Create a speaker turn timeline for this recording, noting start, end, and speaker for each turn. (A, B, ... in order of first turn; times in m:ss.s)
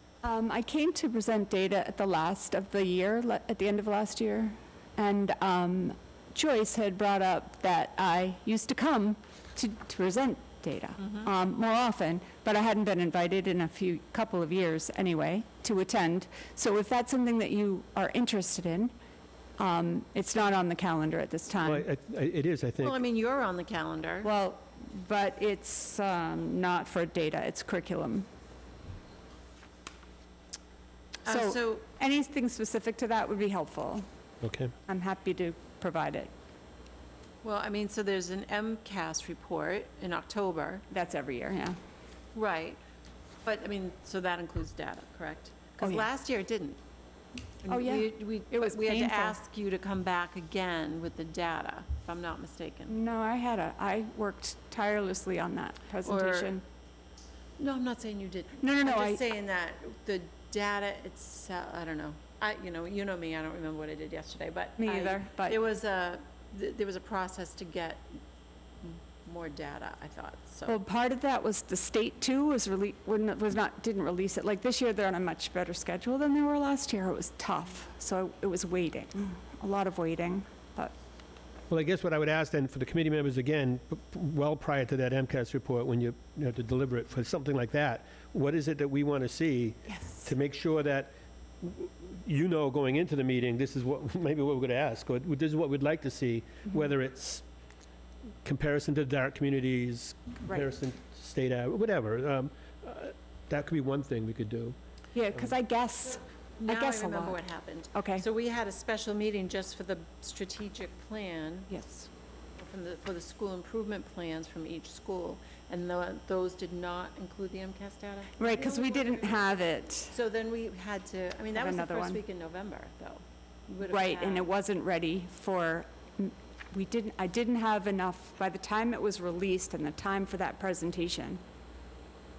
0:00.2-0:18.9 A
0:19.6-0:21.9 A
0:21.6-0:23.0 B
0:22.8-0:24.3 C
0:24.2-0:28.3 A
0:31.2-0:31.8 C
0:31.2-0:34.0 A
0:34.4-0:34.7 B
0:34.9-0:36.3 A
0:37.4-0:40.8 C
0:40.9-0:41.8 A
0:42.3-0:42.8 C
0:43.4-0:46.8 C
0:45.8-0:46.0 A
0:47.6-0:52.9 C
0:47.6-0:49.4 A
0:52.9-0:56.6 A
0:56.0-0:56.6 C
0:57.6-1:08.1 C
0:58.6-0:59.2 A
1:04.8-1:05.6 A
1:08.8-1:10.8 C
1:10.7-1:20.9 A
1:21.7-1:37.4 B
1:38.4-1:44.8 B
1:45.1-1:48.2 A
1:46.1-1:51.7 C
1:51.7-1:52.1 A
1:52.6-2:04.5 C
1:58.4-2:00.1 A
2:01.5-2:02.2 A
2:03.8-2:11.4 A